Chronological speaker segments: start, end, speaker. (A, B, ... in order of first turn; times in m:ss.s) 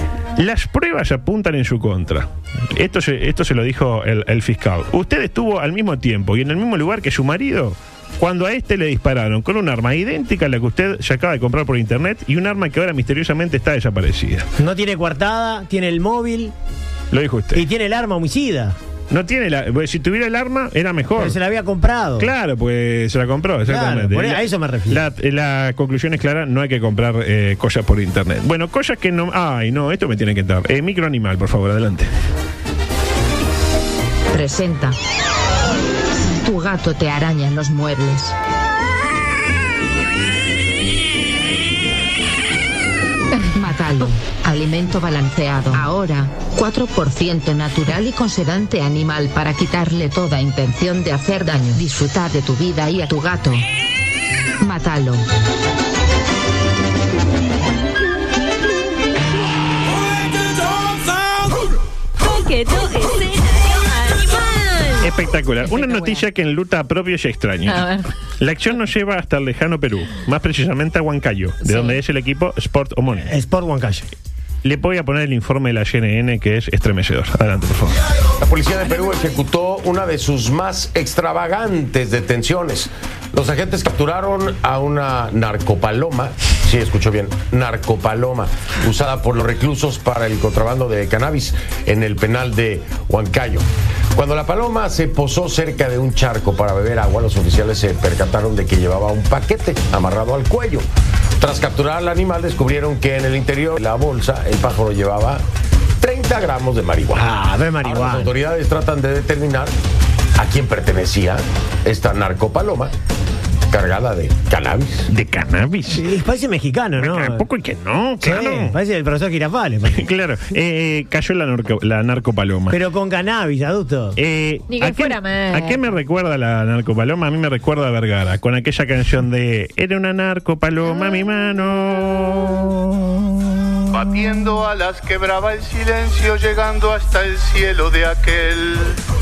0:00.4-0:14.5 A
0:14.6-0:16.5 B
0:17.1-0:17.6 A
0:17.5-0:18.7 B
0:19.1-0:21.4 A
0:21.2-0:22.3 B
0:22.2-0:32.1 A
0:23.6-0:25.0 B
0:34.3-0:35.0 C
0:36.2-0:38.3 C
0:43.5-0:53.6 C
0:54.6-0:55.2 C
1:02.2-1:05.1 D
1:05.0-1:07.9 A
1:05.7-1:06.2 D
1:07.7-1:08.1 D
1:08.4-1:13.3 A
1:11.6-1:12.0 D
1:13.2-1:14.0 B
1:14.6-1:18.0 A
1:18.4-1:40.8 E
1:41.4-1:45.4 E
1:46.0-1:47.2 E
1:47.1-1:48.3 B
1:47.8-1:49.7 E
1:50.4-1:52.9 E
1:53.7-1:55.0 E
1:55.1-1:56.0 A
1:55.9-1:57.5 B
1:57.0-1:58.8 A
1:58.2-2:00.1 B
1:59.9-2:02.8 A
2:02.7-2:04.2 B
2:04.2-2:14.5 A
2:04.7-2:05.8 D
2:13.9-2:19.0 F